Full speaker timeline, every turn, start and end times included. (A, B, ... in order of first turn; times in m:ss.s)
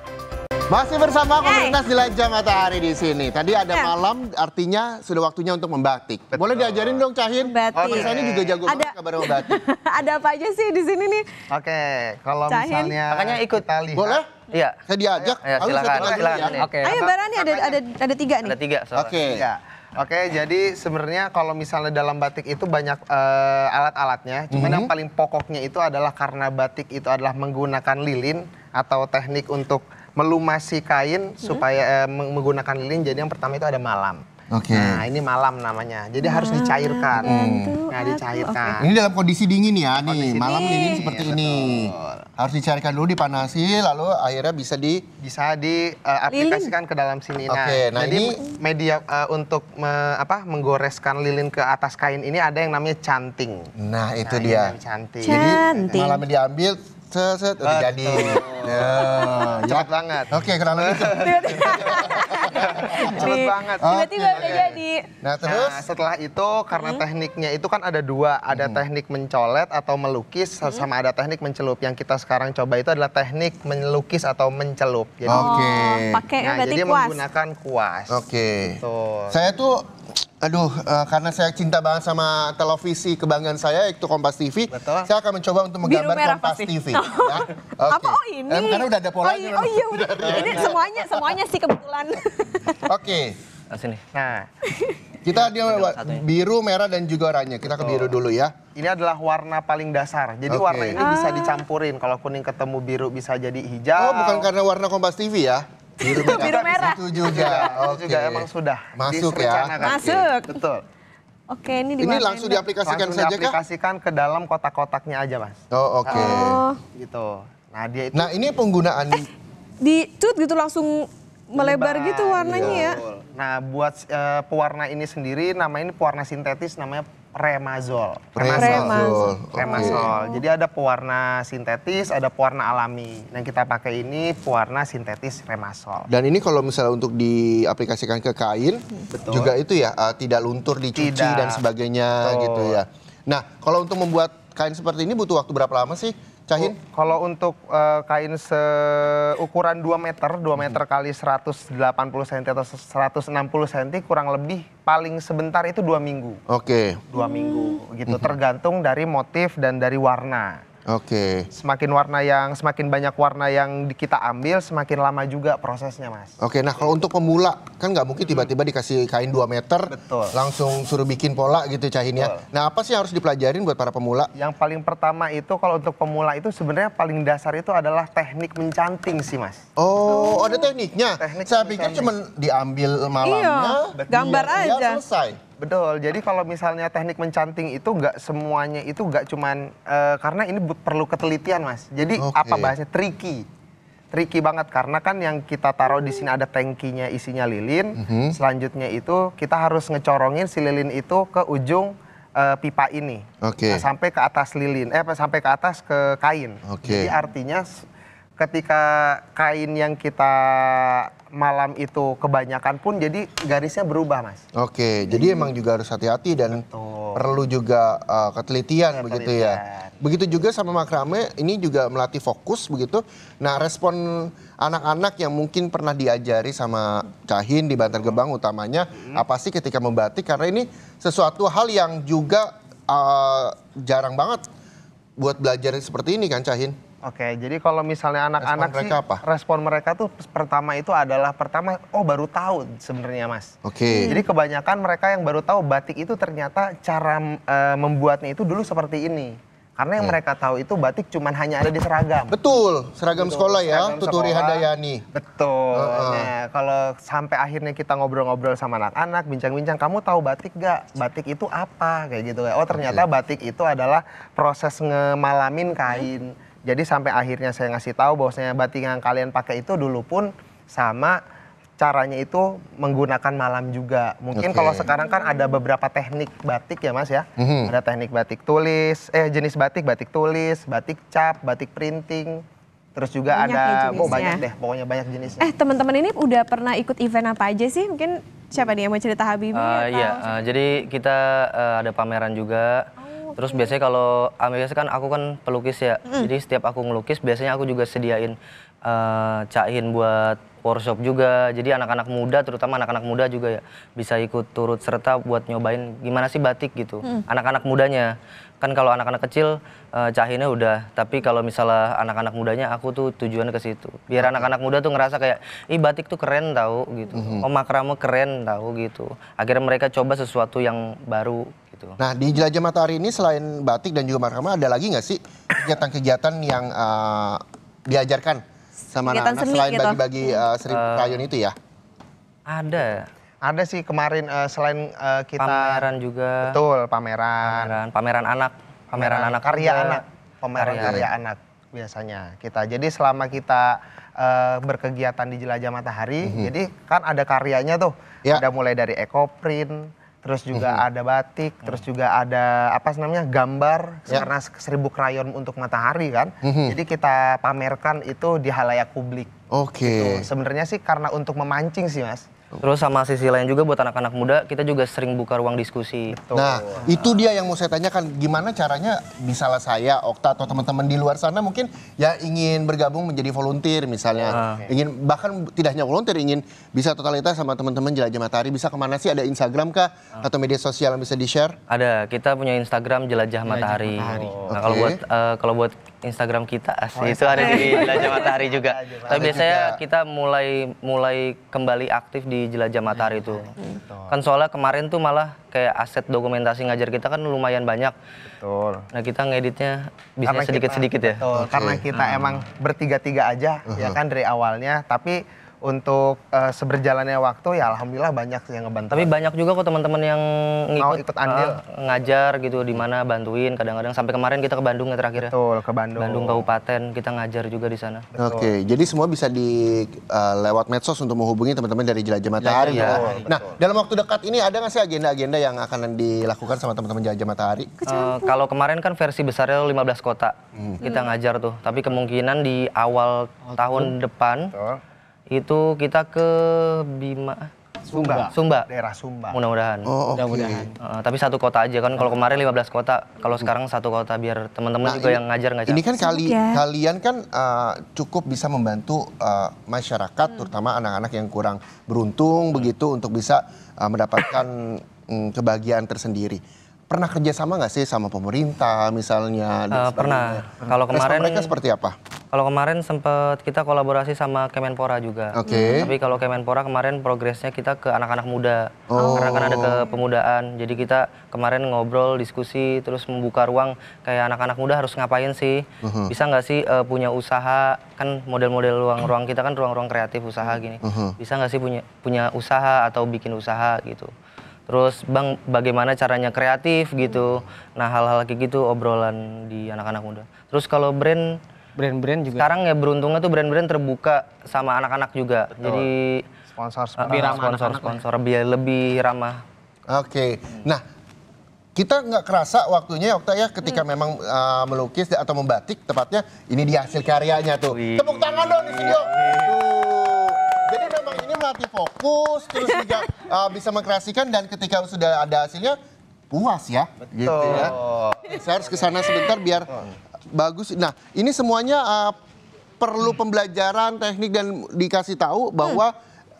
0:00.7-0:09.6 A
0:01.4-0:01.8 B
0:06.3-0:07.0 C
0:07.4-0:11.4 B
0:07.8-0:08.6 C
0:11.5-0:14.2 C
0:12.4-0:13.0 B
0:13.1-0:13.7 D
0:13.9-0:14.3 A
0:14.5-0:14.8 D
0:14.9-0:16.6 A
0:15.4-0:16.8 D
0:15.9-0:17.8 C
0:16.6-0:17.0 E
0:16.8-0:18.5 B
0:18.4-0:19.2 D
0:18.9-0:19.4 A
0:19.3-0:37.3 C
0:24.5-0:24.9 A
0:34.5-0:35.0 A
0:36.2-0:38.9 B
0:37.2-0:37.8 A
0:37.9-0:38.8 C
0:38.8-0:45.0 A
0:40.0-0:42.2 C
0:40.4-0:41.0 B
0:45.2-0:53.7 C
0:46.3-0:46.7 B
0:47.5-0:48.4 A
0:53.8-0:54.7 A
0:54.2-0:56.1 C
0:55.2-0:56.2 B
0:55.2-1:05.8 A
0:57.6-0:58.9 C
0:59.0-0:59.5 B
0:59.5-1:04.7 C
1:01.2-1:05.1 B
1:05.4-1:15.6 C
1:06.7-1:07.0 B
1:08.5-1:08.8 A
1:15.3-1:16.2 A
1:15.3-1:17.2 B
1:16.4-1:18.2 C
1:18.1-1:19.9 A
1:18.8-1:19.4 C
1:20.4-1:31.3 A
1:24.7-1:25.1 C
1:25.8-1:32.8 B
1:30.2-1:30.7 C
1:32.8-1:33.4 A
1:33.7-1:34.0 D
1:34.1-1:34.6 C
1:34.6-1:35.0 B
1:35.2-1:38.5 A
1:35.3-1:36.2 D
1:38.7-1:44.5 C
1:40.5-1:41.0 A
1:40.9-1:41.6 B
1:44.0-1:50.2 A
1:46.0-1:47.7 B
1:46.2-1:50.8 C
1:49.8-1:50.6 B
1:51.5-1:52.6 B
1:52.0-1:53.6 A
1:52.8-1:58.5 C
1:55.7-1:56.6 A
1:56.0-1:56.8 B
1:58.1-1:59.3 A
1:59.8-2:03.0 B
2:01.5-2:16.1 C
2:02.4-2:02.9 A
2:08.4-2:10.1 A
2:08.5-2:10.4 B
2:16.1-2:26.8 A
2:19.1-2:19.5 C
2:20.9-2:21.6 C
2:22.2-2:22.8 C
2:26.6-2:36.4 C
2:36.5-2:37.0 A
2:37.1-2:40.6 C
2:37.2-2:37.8 B
2:38.1-2:38.4 A
2:40.9-2:41.5 A
2:41.5-2:46.4 C
2:46.4-2:54.3 A
2:49.9-2:50.3 C
2:52.2-2:52.4 C
2:54.3-2:59.6 C
2:59.8-3:05.4 A
3:00.1-3:00.7 B
3:01.2-3:02.1 C
3:03.2-3:05.0 B
3:03.9-3:04.5 C
3:05.6-3:13.4 C
3:12.2-3:12.7 A
3:14.1-3:27.8 C
3:18.0-3:18.3 A
3:23.4-3:23.8 A
3:26.6-3:27.1 A
3:28.4-3:34.4 C
3:34.5-3:36.6 A
3:36.5-3:37.2 C
3:37.1-3:54.4 A
3:38.9-3:40.0 C
3:55.2-3:56.8 A
3:57.0-4:12.4 C
3:58.4-3:59.2 A
4:03.6-4:04.2 A
4:04.0-4:04.2 B
4:12.3-4:15.0 A
4:13.1-4:31.2 C
4:15.7-4:16.3 A
4:22.7-4:23.0 A
4:31.8-4:42.4 C
4:34.3-4:34.9 A
4:37.4-4:37.7 A
4:43.0-4:45.5 C
4:43.3-4:44.4 B
4:44.0-4:44.3 A
4:45.4-4:50.4 B
4:49.5-5:22.0 D
4:53.1-4:53.7 B
5:14.2-5:14.5 A
5:17.1-5:17.5 A
5:22.0-5:31.5 A
5:29.1-5:30.4 B
5:30.7-5:31.3 D
5:32.4-5:33.1 D
5:33.4-5:35.9 C
5:35.4-5:36.5 D
5:36.4-5:37.8 C
5:37.4-5:40.0 D
5:38.9-5:59.3 C
5:40.6-5:41.0 D
5:40.8-5:41.1 A
5:46.2-5:46.5 A
5:50.5-5:50.8 A
5:56.4-5:56.8 A
5:59.5-6:00.2 A
5:59.8-6:02.2 C
6:02.6-6:06.2 D
6:06.1-6:06.9 C
6:06.3-6:21.6 A
6:14.3-6:14.7 C
6:14.3-6:14.6 D
6:21.7-6:33.5 D
6:23.5-6:24.5 C
6:24.0-6:24.3 E
6:24.5-6:25.0 A
6:26.9-6:29.4 C
6:27.4-6:27.9 B
6:29.1-6:29.8 A
6:33.1-6:34.1 C
6:34.1-6:37.9 D
6:38.4-6:38.8 C
6:38.9-6:41.2 D
6:40.3-6:49.1 C
6:41.3-6:41.8 A
6:41.9-6:42.4 D
6:43.7-6:44.0 A
6:48.9-6:55.3 D
6:50.8-6:51.6 C
6:55.2-6:56.5 C
6:56.0-6:58.0 D
6:58.1-6:58.5 C
6:58.2-7:07.7 A
7:02.4-7:03.0 D
7:02.5-7:03.2 E
7:02.8-7:03.6 C
7:07.8-7:08.3 B
7:07.8-7:14.5 D
7:13.5-7:13.9 E
7:14.5-7:14.8 C
7:15.3-7:17.5 D
7:17.9-7:19.4 C
7:17.9-7:18.3 E
7:18.3-7:18.7 D
7:19.3-7:19.9 D
7:19.8-7:20.7 A
7:20.1-7:20.8 E
7:20.8-7:25.9 D
7:24.8-7:42.0 A
7:26.0-7:26.6 B
7:39.7-7:41.5 D
7:42.3-8:04.1 D
7:45.3-7:45.9 A
7:45.5-7:45.8 B
7:48.9-7:49.8 A
7:49.0-7:49.5 B
7:55.8-7:56.1 A
8:00.8-8:01.1 A
8:04.7-8:11.4 D
8:11.8-8:12.5 E
8:12.3-8:16.2 D
8:15.6-8:15.9 C
8:16.5-8:17.7 C
8:17.0-8:19.4 D
8:17.1-8:18.0 E
8:19.9-8:20.8 A
8:21.7-8:35.8 A
8:27.7-8:29.5 D
8:36.3-8:39.7 A
8:37.2-8:38.9 C
8:39.7-8:39.9 C
8:40.3-8:42.2 A
8:42.8-8:45.9 A